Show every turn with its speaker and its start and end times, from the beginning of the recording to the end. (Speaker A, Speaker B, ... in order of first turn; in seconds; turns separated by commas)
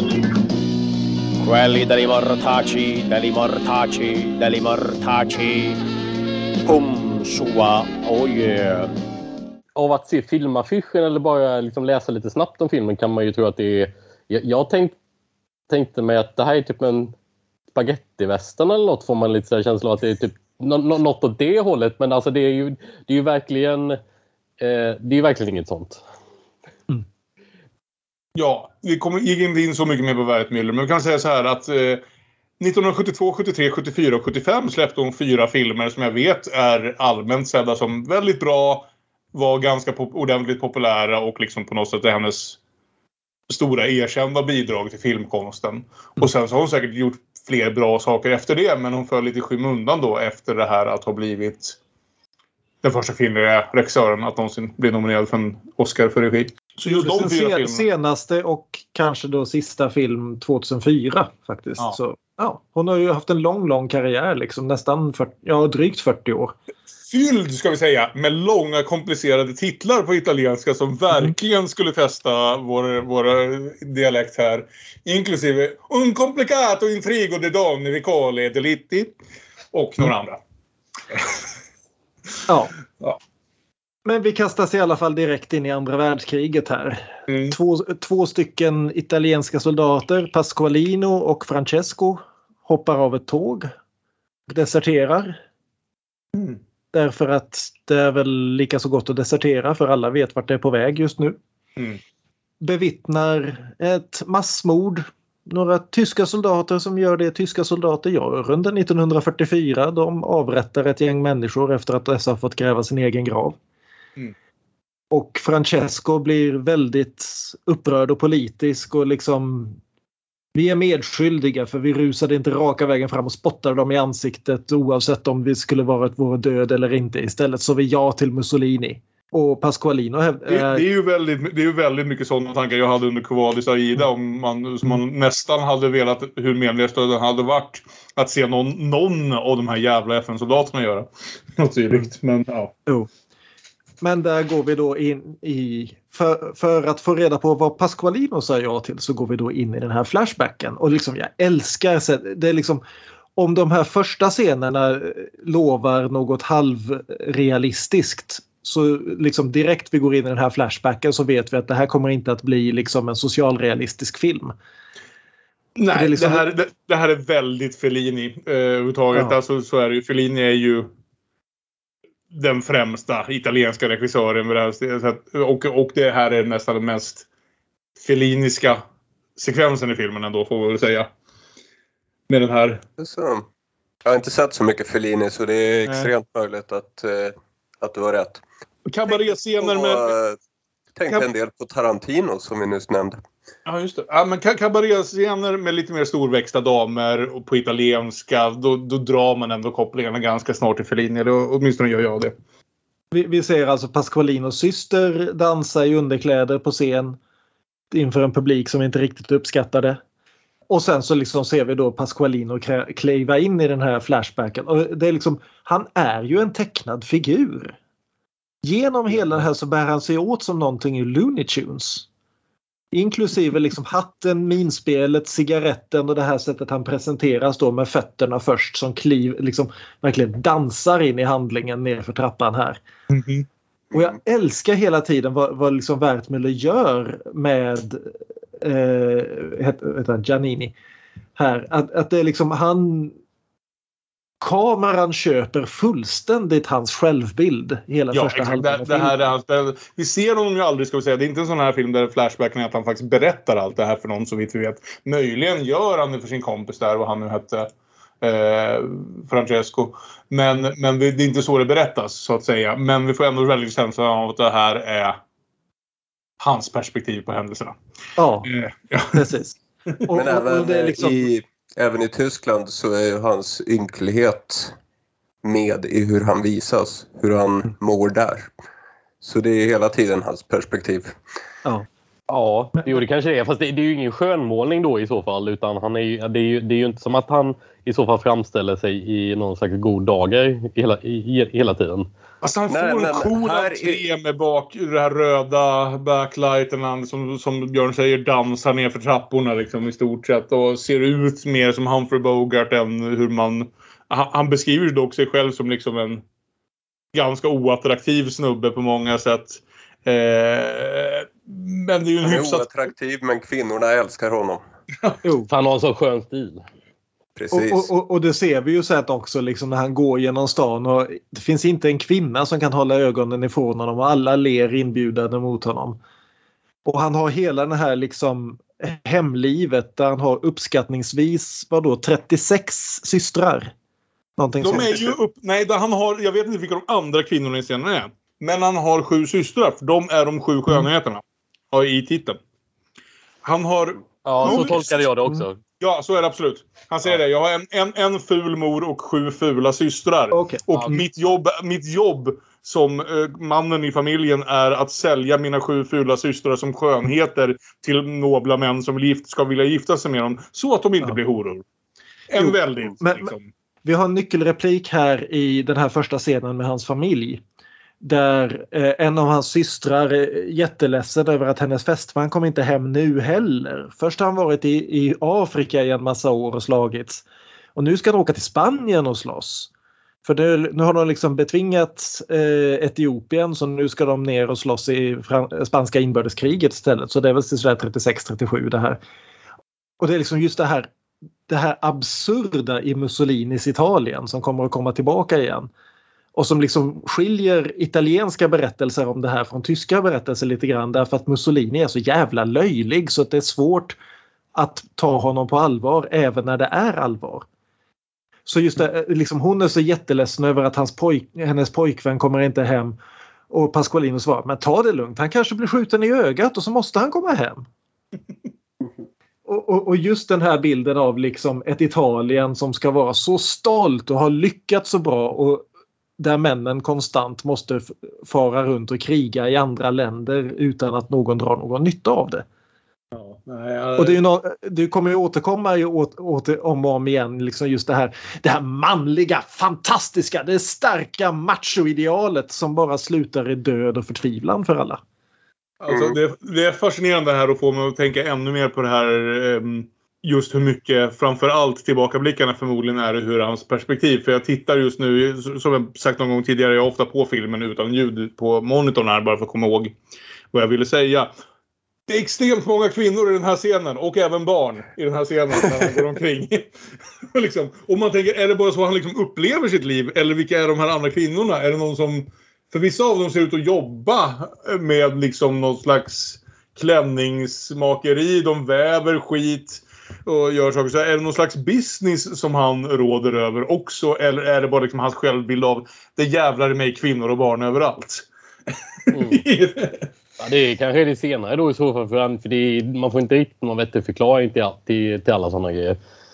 Speaker A: 1.4-5.8, Speaker A: 6.6-8.9, Speaker B: 9.8-14.9, Speaker B: 15.7-17.1, Speaker B: 17.7-24.0, Speaker B: 24.6-26.0, Speaker C: 28.4-32.0, Speaker C: 32.6-42.6, Speaker C: 43.5-51.8, Speaker C: 52.8-57.8, Speaker D: 56.9-66.5, Speaker C: 67.1-79.2, Speaker C: 79.7-80.4, Speaker D: 82.5-82.7, Speaker D: 84.0-93.7, Speaker C: 87.3-87.5, Speaker D: 94.5-95.4, Speaker D: 96.9-101.4, Speaker D: 102.6-113.6, Speaker D: 115.1-119.8, Speaker D: 120.5-130.8, Speaker C: 130.5-142.7, Speaker D: 144.0-152.8, Speaker D: 153.4-164.5, Speaker C: 165.8-170.9, Speaker D: 165.9-166.5, Speaker C: 172.3-177.2, Speaker C: 178.0-178.8, Speaker C: 179.4-181.1, Speaker C: 182.3-182.8, Speaker E: 183.0-183.4, Speaker E: 184.0-188.4, Speaker C: 188.8-190.1, Speaker E: 189.6-190.4, Speaker E: 190.9-193.2, Speaker C: 193.7-202.3, Speaker D: 203.1-207.2, Speaker D: 207.9-210.0, Speaker D: 210.7-217.8, Speaker D: 218.6-222.1, Speaker D: 222.9-232.8, Speaker C: 233.1-233.4, Speaker D: 233.9-240.7, Speaker D: 241.4-243.1, Speaker D: 244.4-249.2, Speaker C: 248.1-257.7, Speaker C: 258.2-265.2, Speaker C: 266.4-267.8, Speaker D: 268.2-268.5, Speaker C: 268.4-269.2, Speaker D: 269.1-269.6, Speaker D: 270.1-271.3, Speaker E: 270.1-274.7, Speaker E: 275.4-278.5, Speaker E: 279.2-281.1, Speaker B: 282.3-292.1, Speaker C: 292.4-306.2, Speaker E: 292.7-294.1, Speaker C: 307.1-312.7, Speaker E: 312.2-314.6, Speaker D: 315.2-315.5, Speaker B: 315.5-316.6, Speaker E: 317.4-317.9, Speaker D: 317.5-326.0, Speaker D: 326.8-333.7, Speaker D: 334.4-335.1, Speaker C: 334.6-342.4, Speaker C: 343.4-345.0, Speaker B: 344.2-345.6, Speaker D: 344.4-345.4, Speaker C: 345.8-361.6, Speaker D: 350.3-350.6, Speaker C: 362.3-363.5, Speaker D: 362.4-363.3, Speaker D: 363.8-367.4, Speaker D: 368.0-377.2, Speaker D: 377.8-379.7, Speaker D: 380.2-389.0, Speaker D: 390.0-390.9, Speaker D: 391.5-395.7, Speaker D: 396.3-403.9, Speaker D: 404.5-407.4, Speaker D: 408.4-413.0, Speaker D: 413.5-417.6, Speaker D: 419.4-425.6, Speaker D: 426.2-432.4, Speaker C: 433.1-434.2, Speaker D: 434.0-445.0, Speaker C: 445.8-459.9, Speaker E: 445.9-446.2, Speaker C: 460.5-461.3, Speaker C: 462.1-466.7, Speaker C: 467.3-488.2, Speaker B: 489.1-489.4, Speaker C: 489.2-490.1, Speaker B: 490.4-496.0